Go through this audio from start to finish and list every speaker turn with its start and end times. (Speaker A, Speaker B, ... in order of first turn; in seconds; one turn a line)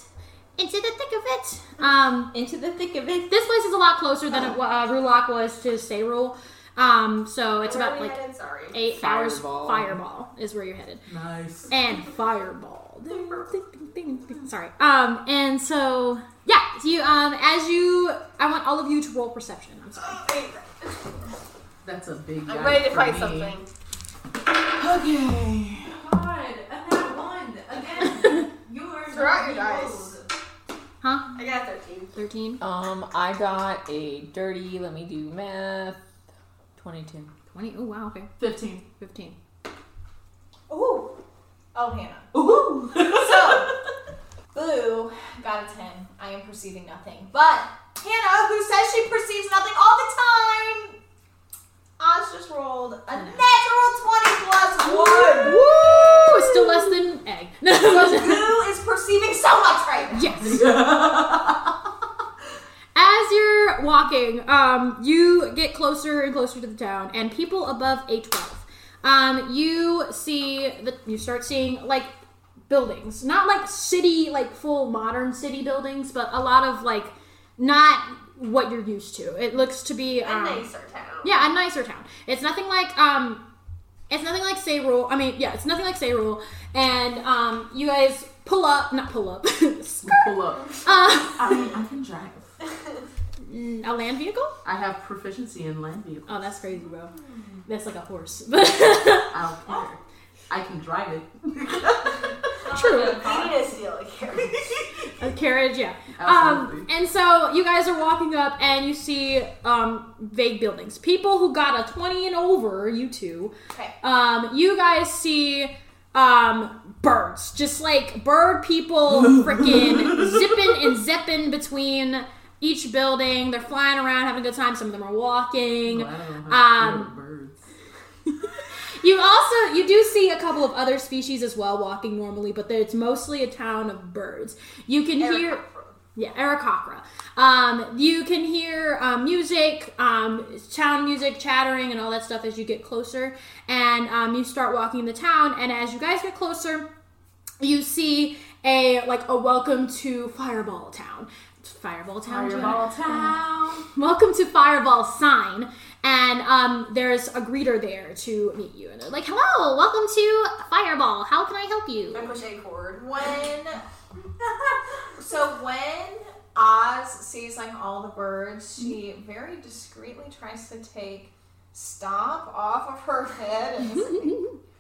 Speaker A: 0.6-2.3
Speaker B: 2.3-3.3
Speaker A: 3.3-8.2
Speaker C: 7.6-8.8
Speaker A: 8.7-11.0
Speaker B: 8.9-10.0
Speaker D: 11.1-11.7
Speaker A: 11.7-20.2
Speaker C: 13.1-13.4
Speaker C: 20.0-21.1
Speaker D: 21.8-23.6
Speaker C: 22.5-23.7
Speaker D: 24.7-26.0
Speaker E: 25.9-30.3
Speaker C: 29.1-30.1
Speaker A: 31.0-31.3
Speaker C: 31.4-32.1
Speaker A: 32.1-32.6
Speaker B: 32.6-36.0
Speaker B: 36.8-37.3
Speaker A: 37.5-39.4
Speaker D: 38.4-38.8
Speaker F: 40.7-41.1
Speaker F: 41.7-42.3
Speaker D: 42.3-43.7
Speaker F: 43.0-43.7
Speaker F: 44.5-51.0
Speaker F: 52.0-55.7
Speaker A: 55.2-58.6
Speaker F: 56.4-56.7
Speaker F: 57.8-60.4
Speaker A: 60.1-60.6
Speaker D: 60.4-61.8
Speaker A: 63.0-72.1
Speaker A: 72.7-80.7
Speaker C: 80.2-81.5
Speaker A: 81.2-83.4
Speaker A: 84.1-91.6
Speaker D: 90.0-92.5
Speaker A: 93.4-94.6
Speaker D: 94.6-96.6
Speaker A: 96.3-97.1
Speaker A: 97.7-99.3
Speaker D: 99.3-102.2
Speaker E: 102.7-103.7
Speaker A: 102.7-103.2
Speaker C: 102.7-105.1
Speaker A: 105.2-127.1
Speaker D: 106.2-106.9
Speaker D: 119.1-120.5
Speaker D: 125.8-127.6
Speaker A: 129.0-135.6
Speaker F: 135.2-135.9
Speaker A: 136.2-146.9
Speaker A: 147.6-153.4
Speaker D: 152.3-153.8
Speaker A: 153.9-162.3
Speaker C: 162.1-163.5
Speaker F: 163.0-163.8
Speaker F: 165.2-174.5